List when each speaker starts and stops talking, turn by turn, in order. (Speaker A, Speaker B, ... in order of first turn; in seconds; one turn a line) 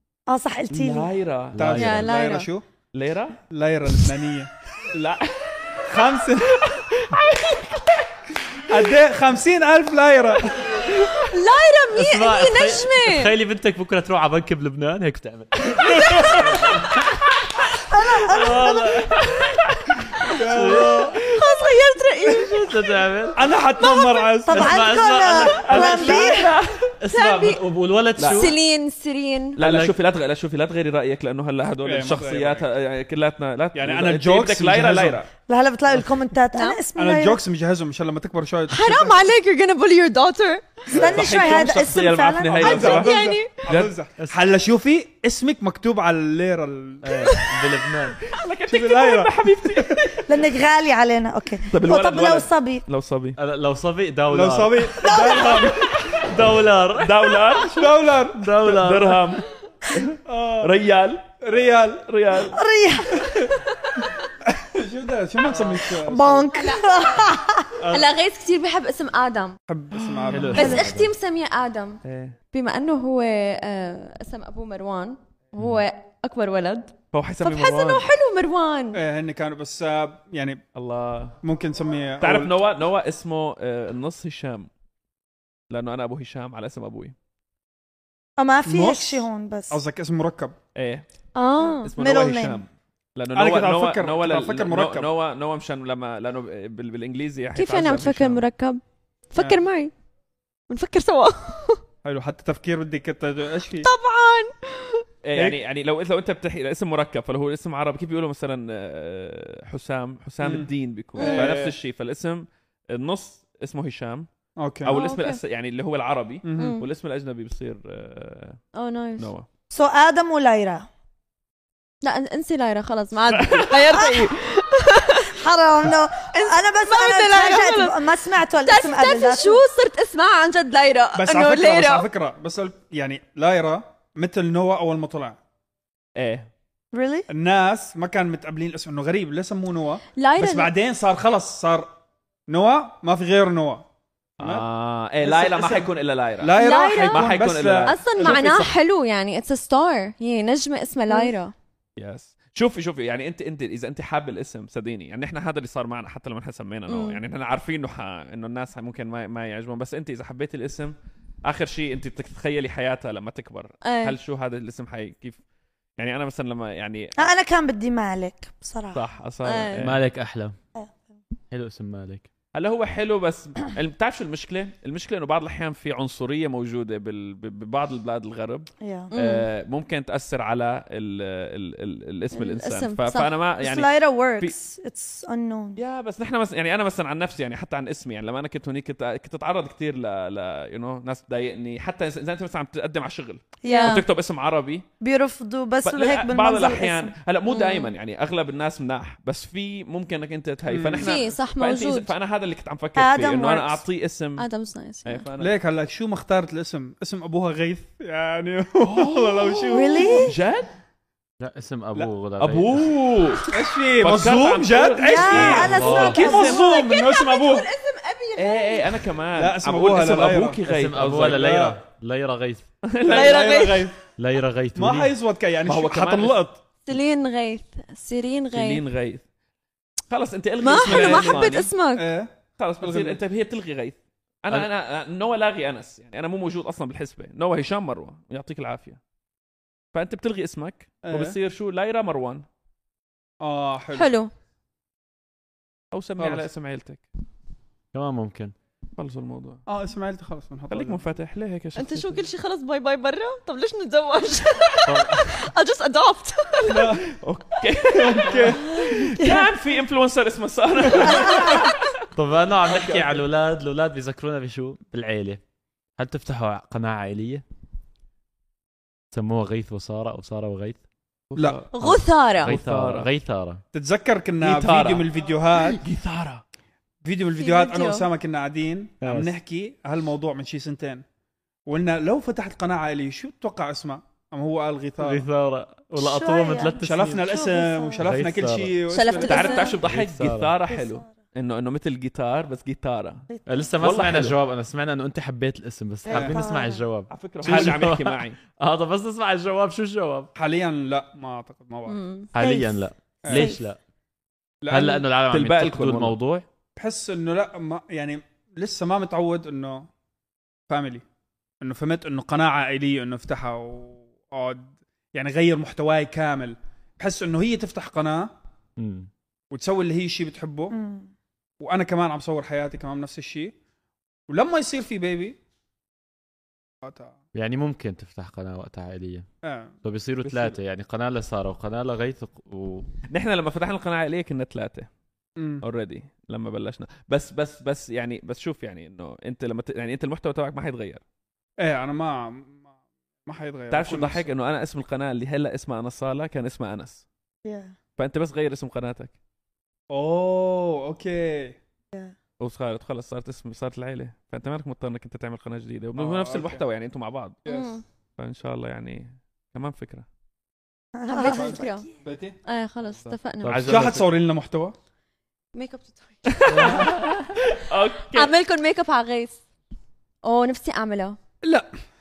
Speaker A: 0.3-1.1
Speaker B: 0.7-1.7
Speaker C: 1.5-2.1
Speaker D: 1.6-2.6
Speaker E: 1.8-2.5
Speaker B: 2.9-3.4
Speaker D: 3.5-4.5
Speaker B: 4.9-5.4
Speaker D: 5.8-6.6
Speaker B: 6.5-8.1
Speaker D: 8.7-10.7
Speaker E: 10.8-13.3
Speaker C: 11.9-17.1
Speaker D: 16.0-16.7
Speaker A: 17.9-18.9
Speaker C: 18.1-19.2
Speaker B: 19.2-20.0
Speaker D: 20.2-21.2
Speaker C: 20.3-21.2
Speaker E: 21.2-22.9
Speaker C: 22.4-23.4
Speaker D: 23.3-24.8
Speaker A: 23.8-26.6
Speaker C: 24.5-26.5
Speaker B: 25.6-26.8
Speaker C: 27.0-28.5
Speaker E: 27.1-27.6
Speaker B: 28.2-28.5
Speaker E: 28.3-29.6
Speaker B: 29.6-35.3
Speaker C: 29.6-29.9
Speaker D: 31.8-32.7
Speaker D: 33.7-35.2
Speaker A: 35.5-37.4
Speaker E: 36.5-36.8
Speaker D: 36.9-39.2
Speaker E: 38.7-40.9
Speaker D: 40.9-41.6
Speaker A: 40.9-43.1
Speaker B: 41.0-43.9
Speaker D: 42.5-47.4
Speaker E: 42.6-43.5
Speaker C: 47.0-48.2
Speaker B: 48.3-50.4
Speaker D: 48.7-50.2
Speaker A: 50.3-52.8
Speaker B: 51.7-53.4
Speaker C: 53.4-54.9
Speaker D: 54.3-55.9
Speaker A: 55.0-55.7
Speaker B: 55.1-56.3
Speaker C: 56.0-57.3
Speaker B: 56.9-58.0
Speaker D: 57.7-58.7
Speaker C: 58.3-59.2
Speaker B: 58.6-61.3
Speaker D: 60.2-60.7
Speaker D: 61.4-62.0
Speaker B: 62.0-62.6
Speaker A: 62.4-63.5
Speaker D: 63.1-63.5
Speaker D: 64.4-66.5
Speaker A: 66.0-67.7
Speaker E: 66.5-67.3
Speaker D: 67.8-68.1
Speaker E: 67.9-69.6
Speaker D: 69.7-70.8
Speaker B: 70.0-70.5
Speaker C: 70.3-71.1
Speaker E: 70.5-79.0
Speaker B: 72.0-72.3
Speaker C: 75.6-75.8
Speaker B: 77.1-78.0
Speaker D: 78.9-80.6
Speaker B: 80.7-81.4
Speaker D: 81.4-82.5
Speaker B: 82.2-84.7
Speaker B: 85.7-87.1
Speaker A: 88.4-89.8
Speaker D: 88.7-90.5
Speaker B: 90.7-91.0
Speaker E: 91.3-91.9
Speaker B: 91.8-98.4
Speaker A: 92.0-92.6
Speaker D: 93.3-95.1
Speaker E: 97.5-98.8
Speaker E: 99.3-99.9
Speaker E: 100.7-101.8
Speaker D: 102.0-103.9
Speaker E: 103.8-105.0
Speaker B: 105.2-114.3
Speaker D: 110.4-111.8
Speaker E: 111.2-111.5
Speaker D: 114.6-115.0
Speaker B: 114.8-118.6
Speaker E: 114.9-115.4
Speaker D: 116.4-116.8
Speaker E: 116.6-116.8
Speaker E: 118.7-119.3
Speaker B: 119.2-119.5
Speaker A: 119.7-120.9
Speaker E: 122.0-125.4
Speaker B: 123.3-124.1
Speaker A: 125.2-129.6
Speaker E: 126.3-128.1
Speaker E: 128.6-132.1
Speaker D: 131.1-135.4
Speaker B: 136.2-136.5
Speaker A: 136.9-137.3
Speaker D: 137.3-141.9
Speaker E: 140.2-140.7
Speaker D: 142.5-143.8
Speaker D: 144.4-144.7
Speaker B: 144.4-148.7
Speaker D: 145.2-148.6
Speaker E: 146.6-151.5
Speaker B: 152.0-165.4
Speaker E: 156.9-157.2
Speaker E: 163.8-164.2
Speaker B: 166.0-167.3
Speaker A: 167.2-169.0
Speaker B: 168.9-170.0
Speaker E: 169.4-169.9
Speaker C: 169.8-170.5
Speaker C: 171.5-172.3
Speaker B: 172.5-184.5
Speaker A: 178.8-179.1
Speaker E: 179.1-179.5
Speaker E: 182.3-183.3
Speaker A: 183.6-185.8
Speaker B: 185.8-194.8
Speaker A: 193.6-194.0
Speaker E: 193.7-194.0
Speaker A: 195.0-197.1
Speaker B: 195.8-204.4
Speaker E: 197.5-197.9
Speaker D: 200.7-201.2
Speaker E: 201.0-202.1
Speaker A: 203.0-203.8
Speaker E: 204.4-205.2
Speaker B: 205.1-205.6
Speaker D: 205.4-210.3
Speaker B: 208.8-210.7
Speaker A: 209.7-210.3
Speaker C: 211.4-212.9
Speaker B: 212.4-216.8
Speaker D: 213.5-217.7
Speaker A: 215.0-216.6
Speaker C: 215.4-216.2
Speaker E: 216.0-219.1
Speaker B: 218.4-221.4
Speaker D: 219.3-220.6
Speaker C: 220.7-222.7
Speaker D: 221.2-221.8
Speaker B: 222.9-223.5
Speaker D: 223.1-224.0
Speaker E: 223.1-223.9
Speaker C: 224.2-225.1
Speaker D: 224.8-226.6
Speaker B: 225.7-226.4
Speaker E: 226.8-228.8
Speaker B: 228.5-229.2
Speaker B: 230.1-231.7
Speaker E: 230.6-232.1
Speaker D: 230.8-233.2
Speaker B: 232.6-239.0
Speaker B: 239.9-242.4
Speaker D: 241.0-241.4
Speaker D: 243.4-244.1
Speaker E: 243.9-244.3
Speaker B: 245.9-247.0
Speaker D: 246.2-246.4
Speaker C: 247.9-248.5
Speaker B: 248.9-249.6
Speaker D: 249.7-251.0
Speaker B: 250.7-252.1
Speaker E: 251.8-257.0
Speaker C: 254.8-255.5
Speaker D: 256.6-257.1
Speaker B: 257.1-261.9
Speaker D: 257.9-258.8
Speaker E: 258.6-259.2
Speaker C: 262.1-265.4
Speaker B: 262.7-263.2
Speaker C: 266.0-267.4
Speaker C: 269.1-270.8
Speaker B: 271.3-273.1
Speaker D: 271.4-271.6
Speaker E: 271.7-272.5
Speaker C: 271.8-273.6
Speaker D: 273.7-275.8
Speaker B: 274.4-276.4
Speaker D: 277.0-281.0
Speaker E: 277.4-278.1
Speaker C: 279.0-279.3
Speaker D: 281.7-285.2
Speaker C: 285.0-287.2
Speaker A: 286.0-288.0
Speaker D: 286.8-289.6
Speaker C: 288.0-288.8
Speaker E: 288.9-289.8
Speaker B: 289.2-293.2
Speaker C: 289.8-290.5
Speaker A: 290.7-291.0
Speaker A: 293.3-293.6
Speaker C: 293.4-300.3
Speaker B: 293.8-294.4
Speaker D: 296.1-296.4
Speaker A: 296.1-296.8
Speaker B: 297.1-298.4
Speaker D: 297.4-297.7
Speaker D: 300.4-302.0
Speaker E: 301.9-302.3
Speaker C: 302.3-303.8
Speaker A: 302.4-303.6
Speaker D: 303.2-303.5
Speaker D: 304.6-305.1
Speaker C: 304.7-306.4
Speaker B: 305.3-306.1
Speaker D: 306.8-309.9
Speaker D: 310.7-311.0
Speaker D: 311.6-318.3
Speaker C: 318.8-319.1
Speaker D: 319.5-320.8
Speaker A: 320.7-321.1
Speaker D: 321.6-323.5
Speaker D: 324.3-325.4
Speaker D: 326.8-327.1
Speaker C: 327.3-329.2
Speaker D: 329.4-329.8
Speaker C: 329.8-332.9
Speaker B: 330.2-330.6
Speaker B: 333.1-334.9
Speaker D: 335.4-335.6
Speaker B: 335.6-341.0
Speaker D: 341.6-342.6
Speaker D: 343.2-344.3
Speaker B: 343.7-347.0
Speaker A: 347.4-347.7
Speaker B: 348.0-349.1
Speaker D: 349.9-351.6
Speaker B: 352.4-357.4
Speaker D: 355.9-356.6
Speaker D: 357.4-357.8
Speaker E: 357.5-357.8
Speaker B: 358.2-360.1
Speaker A: 360.9-361.8
Speaker E: 361.1-361.9
Speaker D: 361.2-362.4
Speaker E: 362.4-363.6
Speaker C: 363.4-364.1
Speaker B: 363.5-364.1
Speaker D: 363.7-364.7
Speaker E: 365.5-366.8
Speaker B: 366.3-368.3
Speaker D: 366.5-366.9
Speaker C: 366.5-366.9
Speaker E: 368.1-369.4
Speaker E: 370.2-371.2
Speaker D: 371.4-371.7